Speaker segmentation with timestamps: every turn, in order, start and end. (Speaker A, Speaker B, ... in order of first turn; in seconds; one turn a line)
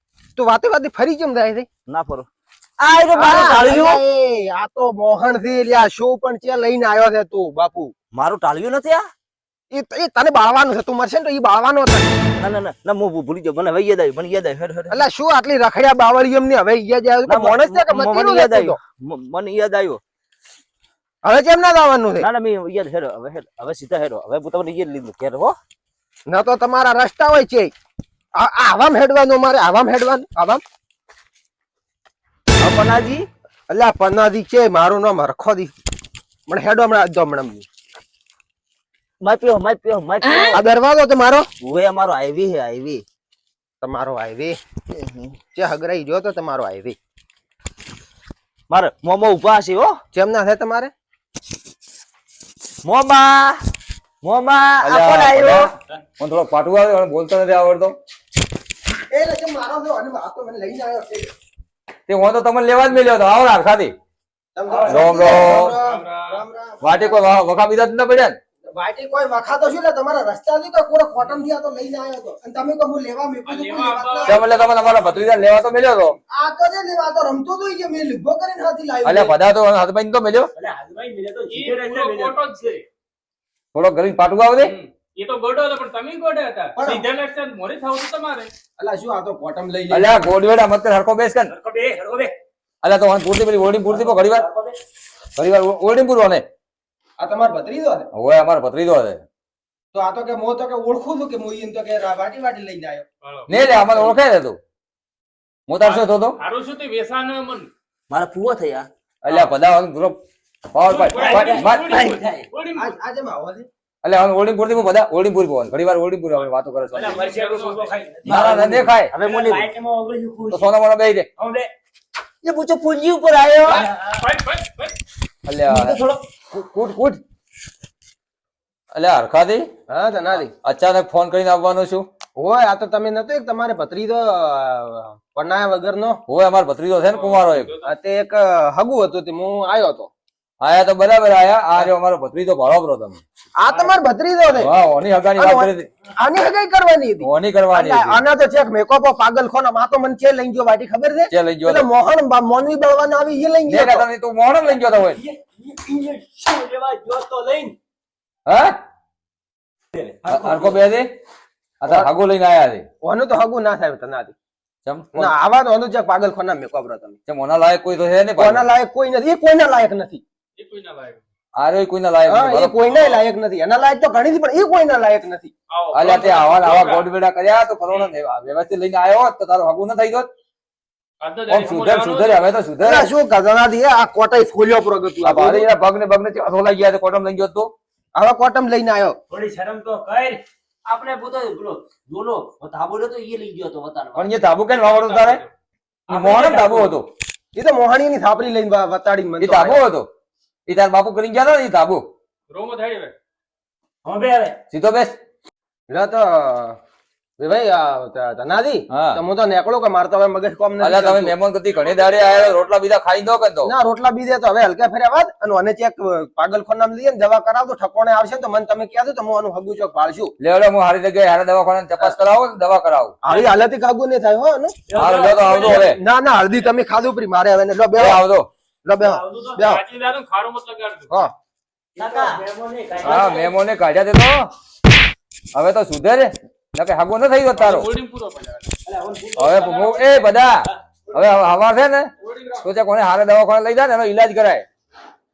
Speaker A: 0.3-1.7
Speaker B: 1.9-2.3
Speaker B: 2.8-4.0
Speaker A: 3.1-7.9
Speaker B: 8.1-9.0
Speaker A: 9.7-12.1
Speaker B: 12.4-15.0
Speaker A: 14.9-18.8
Speaker B: 17.2-20.0
Speaker A: 21.2-22.3
Speaker B: 22.2-25.6
Speaker A: 26.3-27.7
Speaker A: 28.4-30.6
Speaker B: 32.6-33.2
Speaker A: 33.7-35.7
Speaker A: 36.5-37.6
Speaker B: 39.2-40.6
Speaker A: 40.5-41.5
Speaker B: 41.6-43.0
Speaker A: 43.8-44.6
Speaker B: 44.9-45.4
Speaker A: 45.5-47.0
Speaker B: 48.7-50.0
Speaker A: 50.1-50.9
Speaker B: 52.8-53.6
Speaker B: 54.2-55.7
Speaker C: 54.8-57.9
Speaker A: 59.1-61.3
Speaker C: 62.1-63.9
Speaker A: 64.5-67.2
Speaker D: 64.7-65.7
Speaker C: 64.9-65.8
Speaker E: 65.6-66.4
Speaker C: 66.8-68.4
Speaker A: 68.7-74.5
Speaker E: 73.5-75.3
Speaker C: 74.2-76.2
Speaker A: 76.3-79.3
Speaker C: 79.0-80.5
Speaker D: 80.5-82.6
Speaker E: 81.5-82.8
Speaker C: 83.7-84.8
Speaker E: 84.6-88.5
Speaker A: 86.8-87.1
Speaker A: 88.8-90.2
Speaker C: 89.9-91.5
Speaker D: 91.5-92.3
Speaker C: 92.8-94.4
Speaker D: 93.9-94.7
Speaker C: 95.4-96.4
Speaker A: 97.2-98.1
Speaker C: 98.1-99.2
Speaker A: 99.9-103.0
Speaker E: 103.2-103.5
Speaker C: 103.5-104.6
Speaker A: 103.5-104.0
Speaker C: 105.7-106.4
Speaker E: 105.8-107.7
Speaker B: 108.1-108.9
Speaker C: 109.2-110.2
Speaker E: 109.2-109.5
Speaker C: 110.7-112.0
Speaker D: 110.8-112.5
Speaker E: 111.1-112.9
Speaker A: 112.7-113.7
Speaker C: 114.0-117.2
Speaker D: 116.9-118.5
Speaker E: 117.0-118.3
Speaker B: 118.3-119.7
Speaker C: 118.3-119.1
Speaker D: 119.2-120.7
Speaker C: 120.5-121.3
Speaker D: 121.4-121.7
Speaker B: 122.4-123.9
Speaker D: 123.7-124.2
Speaker E: 124.2-125.0
Speaker C: 125.5-126.0
Speaker D: 125.7-126.2
Speaker C: 126.5-127.2
Speaker C: 128.9-129.6
Speaker A: 129.9-130.5
Speaker C: 130.6-132.0
Speaker A: 132.4-136.2
Speaker C: 136.3-137.7
Speaker E: 137.1-137.8
Speaker A: 137.8-140.1
Speaker C: 140.6-143.2
Speaker A: 143.6-144.7
Speaker D: 143.7-144.0
Speaker C: 144.5-145.9
Speaker A: 145.3-154.1
Speaker C: 147.2-148.2
Speaker C: 151.3-151.9
Speaker C: 153.7-155.2
Speaker D: 154.7-157.7
Speaker C: 158.5-158.7
Speaker D: 159.9-160.8
Speaker C: 160.3-161.1
Speaker C: 161.8-162.8
Speaker A: 163.0-164.3
Speaker C: 164.8-165.3
Speaker A: 165.1-167.2
Speaker C: 167.3-168.7
Speaker A: 168.4-170.2
Speaker E: 170.6-171.2
Speaker C: 171.6-173.0
Speaker A: 172.2-175.5
Speaker E: 175.7-177.1
Speaker C: 175.9-180.3
Speaker E: 177.9-178.1
Speaker E: 181.2-182.6
Speaker C: 181.5-183.1
Speaker A: 182.8-185.7
Speaker C: 185.2-187.7
Speaker A: 188.1-189.2
Speaker D: 189.3-190.4
Speaker B: 190.8-194.3
Speaker C: 194.2-195.4
Speaker E: 194.7-195.5
Speaker D: 196.1-197.0
Speaker C: 196.1-197.1
Speaker A: 197.5-199.8
Speaker C: 199.4-200.1
Speaker C: 200.7-202.0
Speaker E: 202.5-203.1
Speaker D: 204.0-204.6
Speaker C: 204.7-205.2
Speaker A: 205.9-206.8
Speaker A: 207.4-211.3
Speaker C: 208.9-209.2
Speaker C: 210.8-213.7
Speaker E: 211.7-212.7
Speaker A: 213.6-220.3
Speaker C: 220.4-223.1
Speaker A: 223.2-224.7
Speaker D: 223.3-223.6
Speaker D: 224.9-225.9
Speaker C: 224.9-226.0
Speaker A: 225.6-228.2
Speaker C: 227.9-228.5
Speaker A: 228.8-229.8
Speaker D: 229.0-229.6
Speaker E: 229.6-231.1
Speaker D: 231.9-233.5
Speaker B: 232.0-232.4
Speaker C: 233.0-234.3
Speaker C: 235.5-237.9
Speaker E: 237.5-238.7
Speaker D: 238.8-241.3
Speaker C: 239.4-240.5
Speaker E: 239.6-240.3
Speaker C: 241.1-242.1
Speaker E: 242.2-242.6
Speaker C: 242.6-244.7